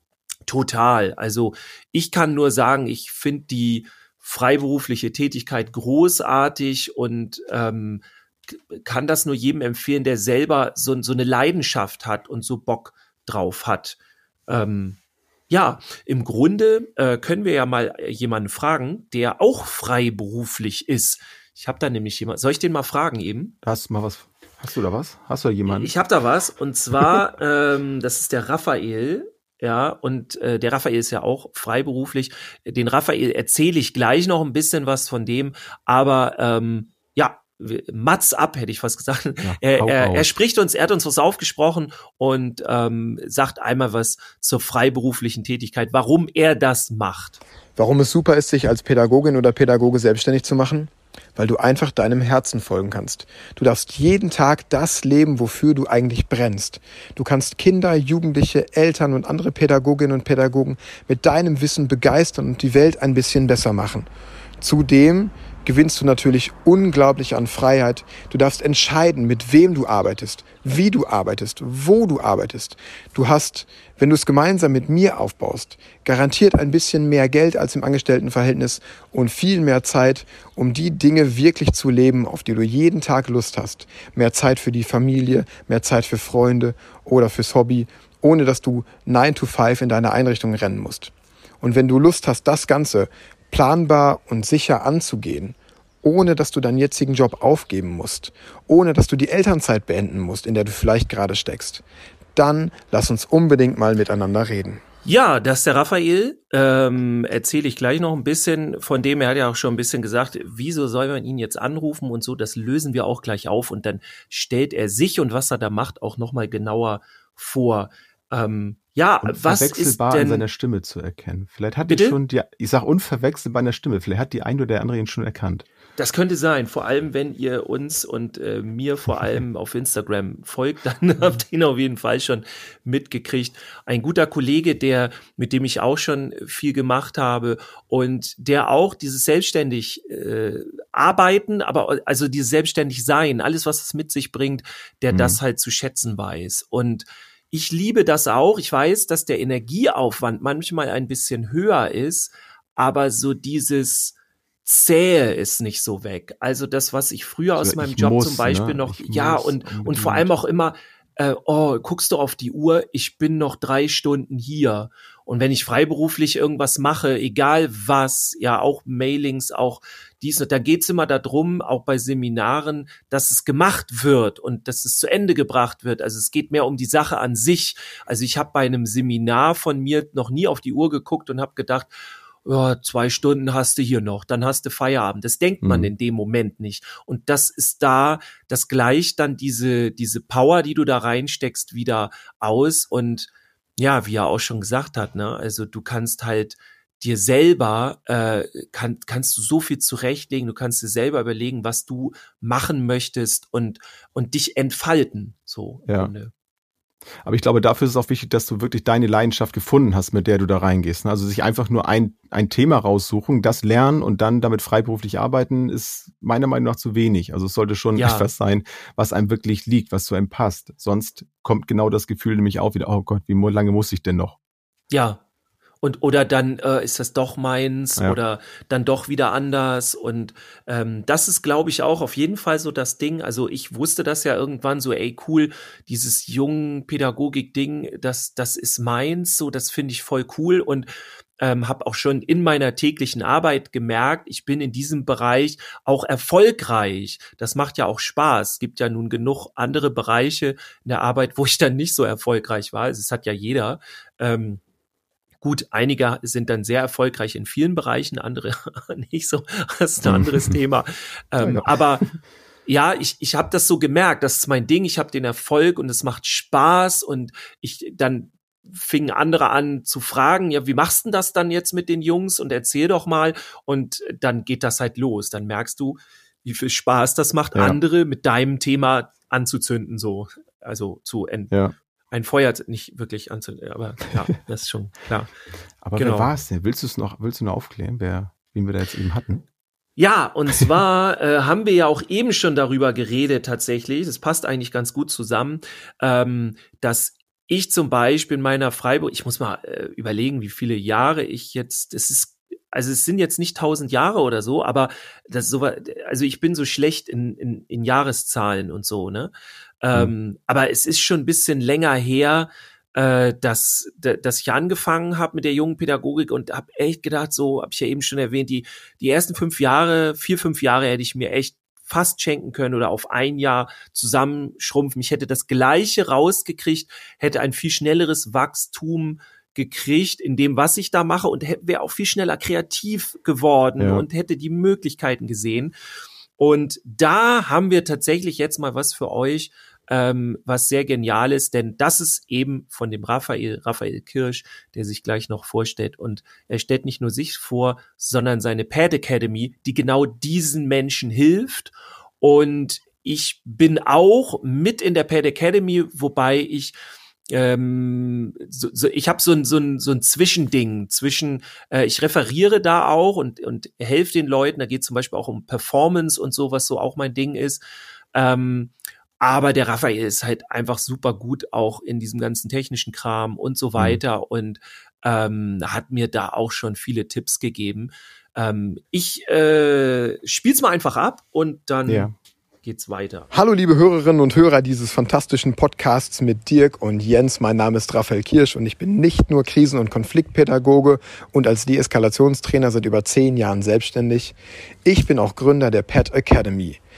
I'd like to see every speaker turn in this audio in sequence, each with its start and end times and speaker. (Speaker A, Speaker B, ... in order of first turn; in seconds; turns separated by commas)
Speaker A: 0.5-15.0, Speaker A: 15.5-23.5, Speaker B: 23.6-25.9, Speaker A: 25.7-47.4, Speaker B: 39.4-40.3, Speaker C: 47.8-64.1, Speaker C: 64.6-101.8, Speaker C: 102.3-104.8, Speaker A: 105.0-120.4, Speaker B: 119.2-125.7, Speaker A: 121.9-122.2, Speaker A: 126.0-181.9, Speaker B: 145.1-145.4, Speaker B: 157.6-160.3, Speaker A: 182.4-206.3, Speaker B: 185.6-185.9, Speaker B: 205.8-206.1, Speaker B: 207.2-224.4, Speaker A: 217.9-218.3, Speaker A: 224.9-225.2, Speaker A: 225.8-254.6, Speaker A: 255.4-262.1, Speaker B: 260.0-260.6, Speaker B: 261.4-262.1, Speaker A: 262.6-281.5, Speaker A: 282.1-285.3, Speaker B: 285.8-289.4, Speaker A: 286.0-286.3, Speaker A: 290.0-335.7, Speaker B: 333.8-334.1, Speaker A: 336.4-356.7, Speaker A: 357.3-367.6, Speaker A: 368.1-382.1, Speaker B: 381.9-382.1, Speaker A: 382.6-383.3, Speaker C: 383.3-396.8